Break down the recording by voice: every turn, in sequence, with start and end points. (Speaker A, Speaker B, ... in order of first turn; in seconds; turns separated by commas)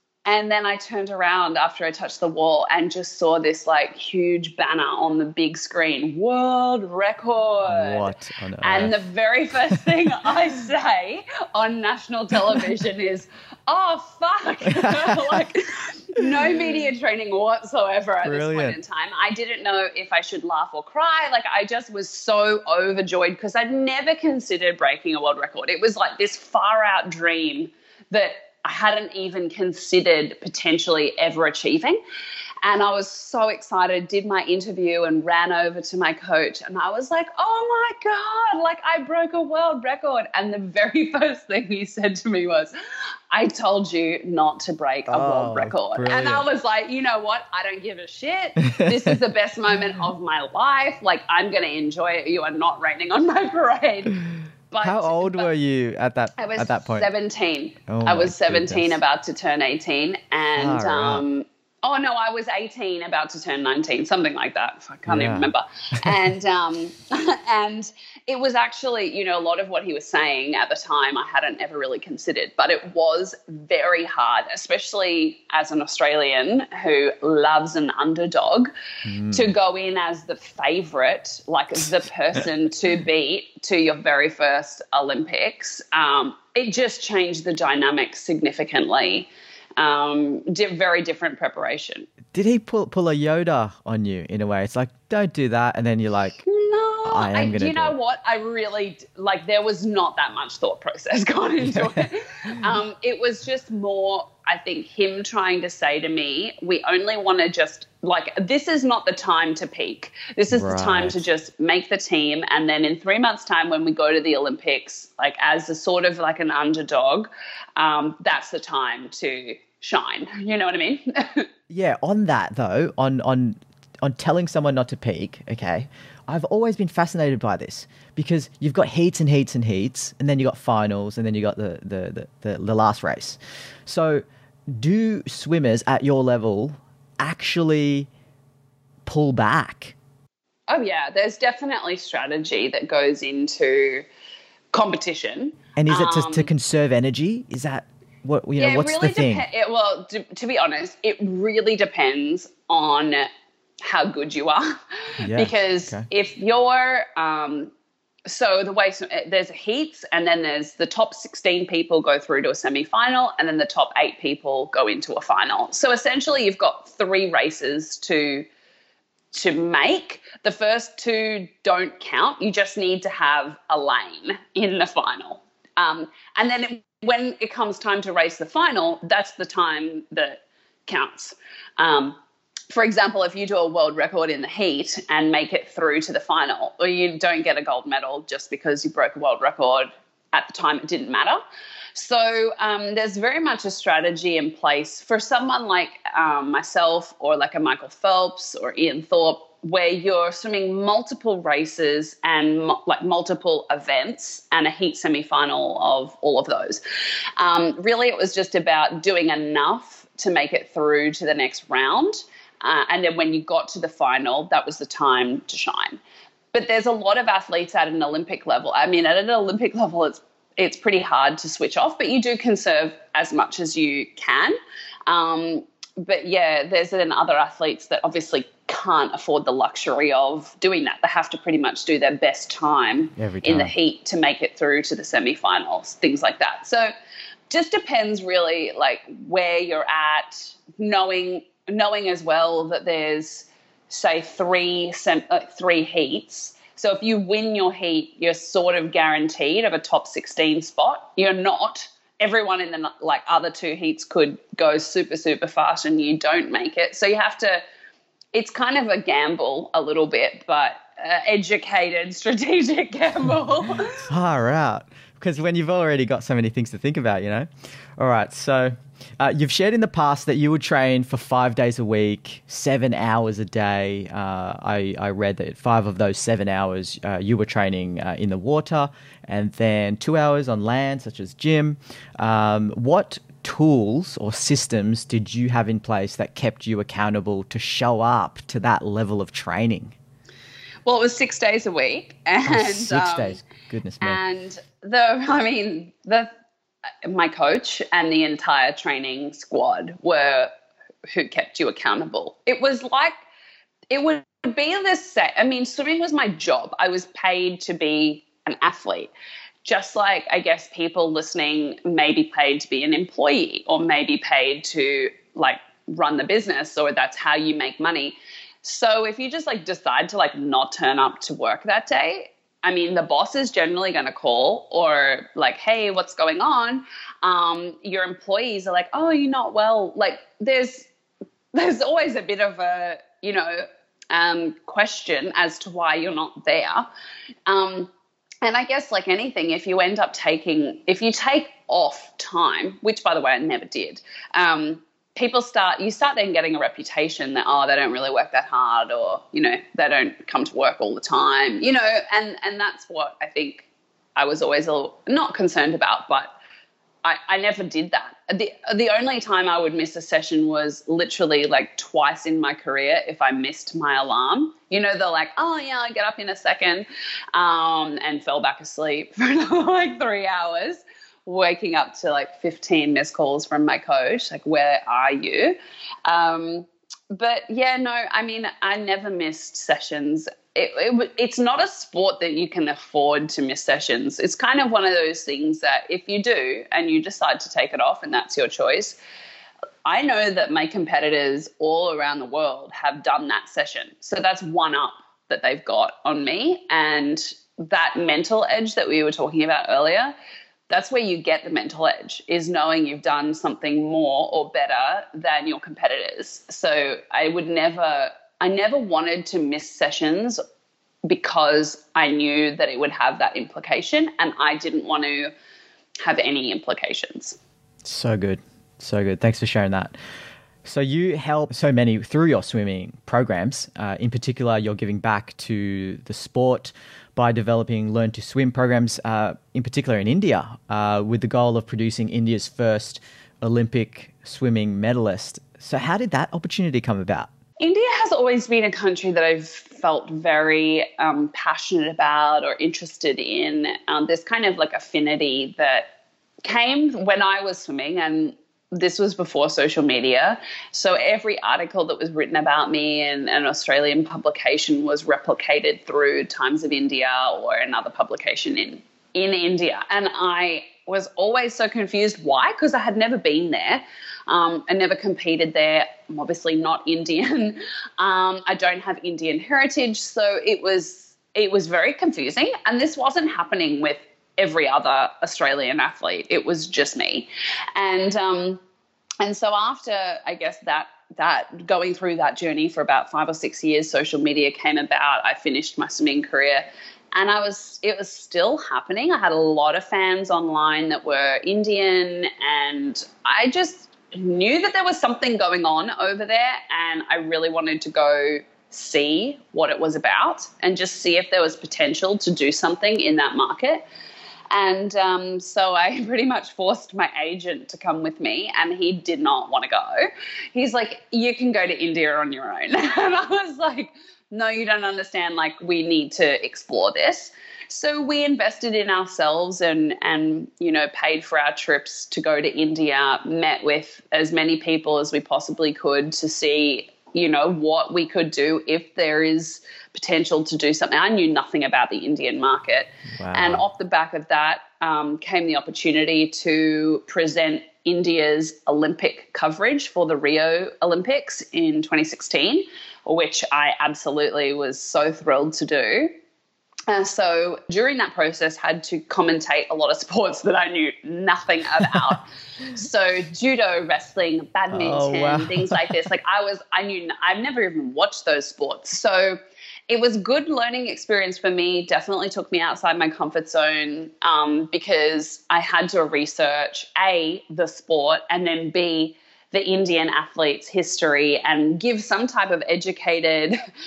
Speaker A: 0.2-32.0, Speaker B: 7.7-9.0, Speaker B: 14.8-15.4, Speaker B: 18.2-18.8, Speaker A: 32.6-42.7, Speaker A: 43.3-55.5, Speaker B: 45.1-46.4, Speaker B: 54.8-57.1, Speaker A: 56.4-78.7, Speaker B: 57.9-59.0, Speaker B: 60.6-61.2, Speaker B: 65.1-65.5, Speaker B: 79.0-79.5, Speaker A: 79.3-92.1, Speaker B: 92.3-96.4, Speaker A: 96.4-121.5, Speaker B: 97.0-97.9, Speaker B: 101.6-102.0, Speaker B: 110.5-111.2, Speaker B: 121.7-138.1, Speaker B: 139.1-139.9, Speaker A: 140.7-144.1, Speaker A: 144.7-146.5, Speaker B: 145.8-149.4, Speaker A: 148.6-153.3, Speaker A: 153.8-157.7, Speaker B: 155.2-156.0, Speaker A: 158.2-168.5, Speaker A: 169.3-182.2, Speaker A: 182.7-191.4, Speaker A: 191.9-206.8, Speaker A: 207.4-216.0, Speaker A: 216.5-236.9, Speaker B: 233.2-233.7, Speaker A: 237.5-257.6, Speaker A: 258.3-264.1, Speaker B: 264.1-289.9, Speaker A: 290.9-293.4, Speaker B: 292.4-294.2, Speaker A: 294.0-296.3, Speaker A: 297.0-300.5, Speaker A: 301.1-303.1, Speaker A: 303.9-309.1, Speaker A: 309.6-330.9, Speaker A: 331.5-336.9, Speaker A: 337.5-337.9, Speaker A: 338.4-356.3, Speaker A: 357.0-389.0, Speaker A: 389.8-400.1, Speaker A: 400.7-410.4, Speaker A: 411.0-415.3, Speaker A: 416.0-417.4, Speaker B: 417.8-419.9, Speaker B: 420.6-437.3, Speaker A: 437.6-445.9, Speaker A: 446.4-478.6, Speaker A: 479.2-503.8, Speaker A: 504.5-546.1, Speaker B: 533.2-533.6, Speaker A: 546.9-573.6, Speaker B: 554.7-556.0